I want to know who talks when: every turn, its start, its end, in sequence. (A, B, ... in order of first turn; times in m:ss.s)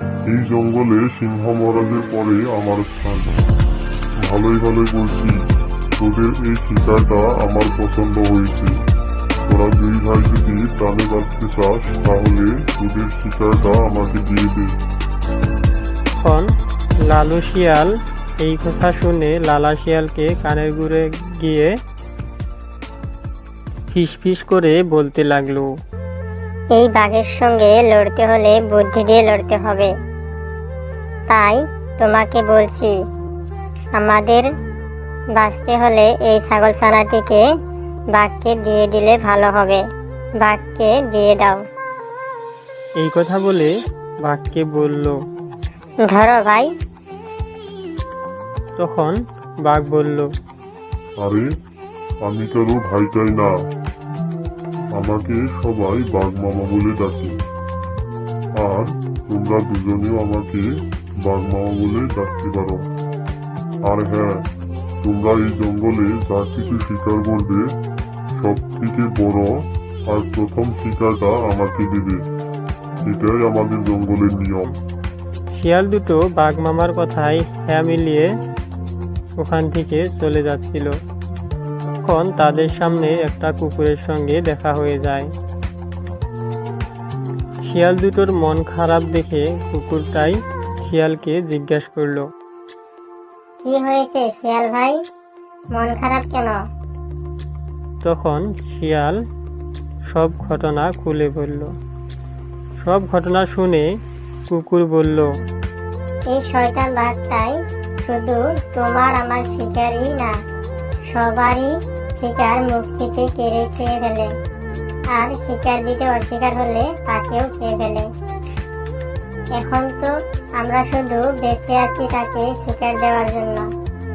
0:00.3-0:03.3 A
0:04.2-0:05.4 A
0:06.0-0:08.7 A
0:09.5-0:14.8 A
0:16.2-0:16.5 B
0:17.1-0:17.9 B
0:18.4-0:21.7 B
0:23.9-0:25.7 B
0:26.7-0:29.9 C
0:31.3-0:32.9 C
0:34.0-0:34.4 C
0:35.4-0:37.4 C
0:38.1-0:39.8 C
0:40.4-0:41.6 C
0:43.0-0:43.7 B
0:44.2-0:45.2 B
0:46.0-0:46.7 C
0:48.8-0:50.3 B
0:51.2-0:51.5 A
0:52.2-0:53.5 A
0:54.9-0:57.3 A
0:58.6-1:00.7 A
1:01.2-1:02.9 A
1:03.8-1:04.5 A
1:05.0-1:07.7 A
1:08.4-1:12.2 A
1:13.0-1:14.7 A
1:15.5-1:18.3 B
1:19.4-1:20.9 B
1:22.0-1:25.3 B
1:27.6-1:32.3 B
1:33.6-1:35.0 C
1:35.7-1:36.6 C
1:38.0-1:39.2 B
1:40.1-1:41.7 B
1:42.8-1:43.9 B
1:44.5-1:45.3 B
1:46.3-1:50.3 C
1:51.1-1:54.3 C
1:55.1-1:58.1 C
1:59.5-2:03.7 C